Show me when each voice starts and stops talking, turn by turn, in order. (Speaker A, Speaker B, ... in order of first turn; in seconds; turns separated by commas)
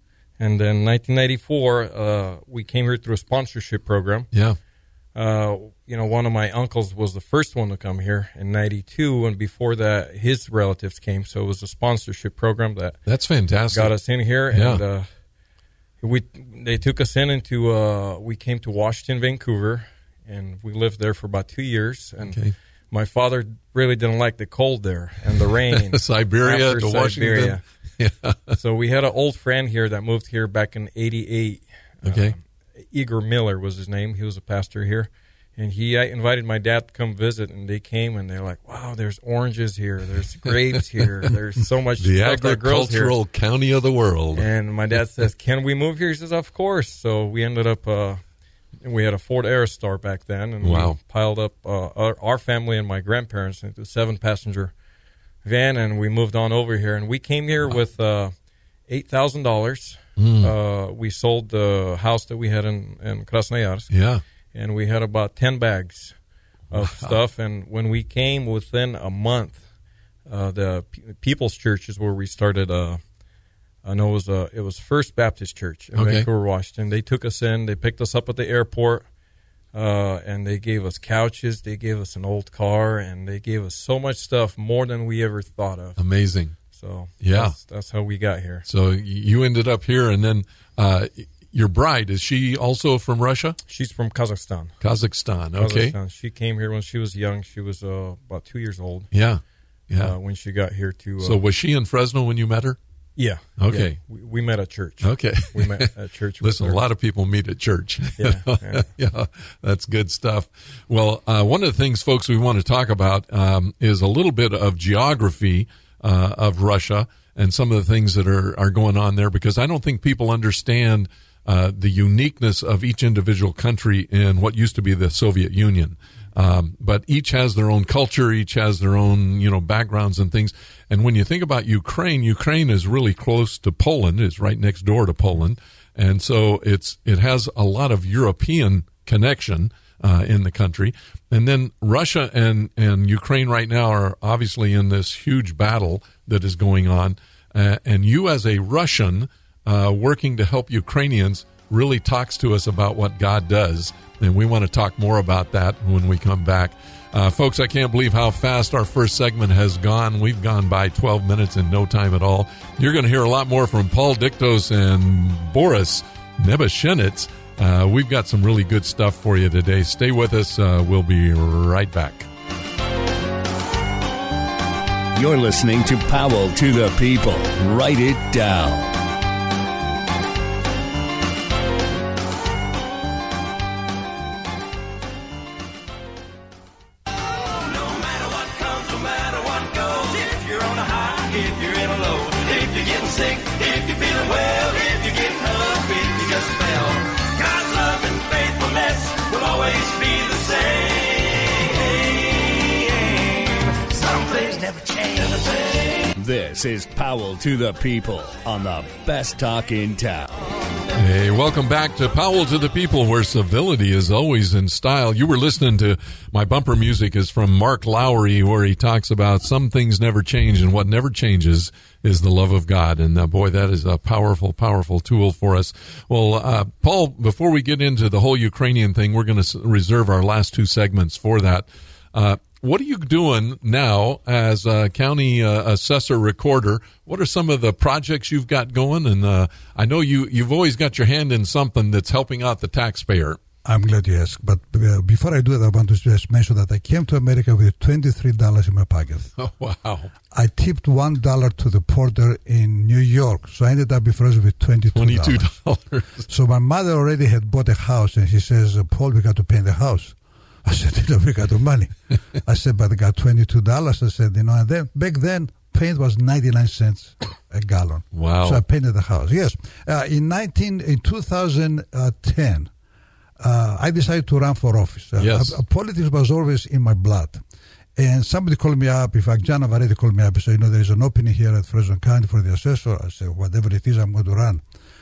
Speaker A: 0.4-4.3, Speaker A: 5.2-13.0, Speaker B: 13.1-13.9, Speaker A: 13.7-15.1, Speaker B: 14.5-14.8, Speaker A: 16.0-22.4, Speaker B: 22.2-22.5, Speaker A: 22.9-27.6, Speaker B: 25.7-28.6, Speaker A: 28.5-32.4, Speaker B: 32.0-32.4, Speaker A: 32.9-43.1, Speaker B: 42.0-44.5, Speaker A: 44.3-48.2, Speaker A: 48.8-54.7, Speaker B: 50.6-51.0, Speaker A: 55.4-58.3, Speaker A: 58.9-63.9, Speaker B: 60.2-60.5, Speaker B: 63.9-64.2, Speaker A: 64.5-66.2, Speaker A: 66.7-69.6, Speaker B: 66.7-67.2, Speaker A: 70.3-73.0, Speaker A: 73.8-79.1, Speaker B: 76.0-76.3, Speaker A: 79.7-86.0, Speaker B: 86.0-86.6, Speaker A: 86.7-88.7, Speaker B: 87.2-87.5, Speaker B: 88.7-93.6, Speaker A: 93.7-94.7, Speaker B: 94.8-96.0, Speaker A: 95.6-99.1, Speaker B: 99.1-100.1, Speaker A: 100.0-101.4, Speaker B: 101.2-102.8, Speaker A: 103.2-106.8, Speaker B: 103.6-104.0, Speaker B: 105.0-105.9, Speaker B: 106.4-172.3, Speaker A: 108.2-108.9, Speaker C: 175.2-178.9, Speaker D: 187.4-206.2, Speaker C: 206.2-210.4, Speaker B: 210.9-243.4, Speaker E: 243.7-249.3, Speaker B: 249.4-250.1, Speaker E: 250.3-255.5, Speaker B: 254.9-256.2, Speaker E: 256.3-272.7, Speaker B: 268.1-268.6, Speaker E: 273.4-277.4, Speaker B: 275.2-275.6, Speaker E: 278.0-284.6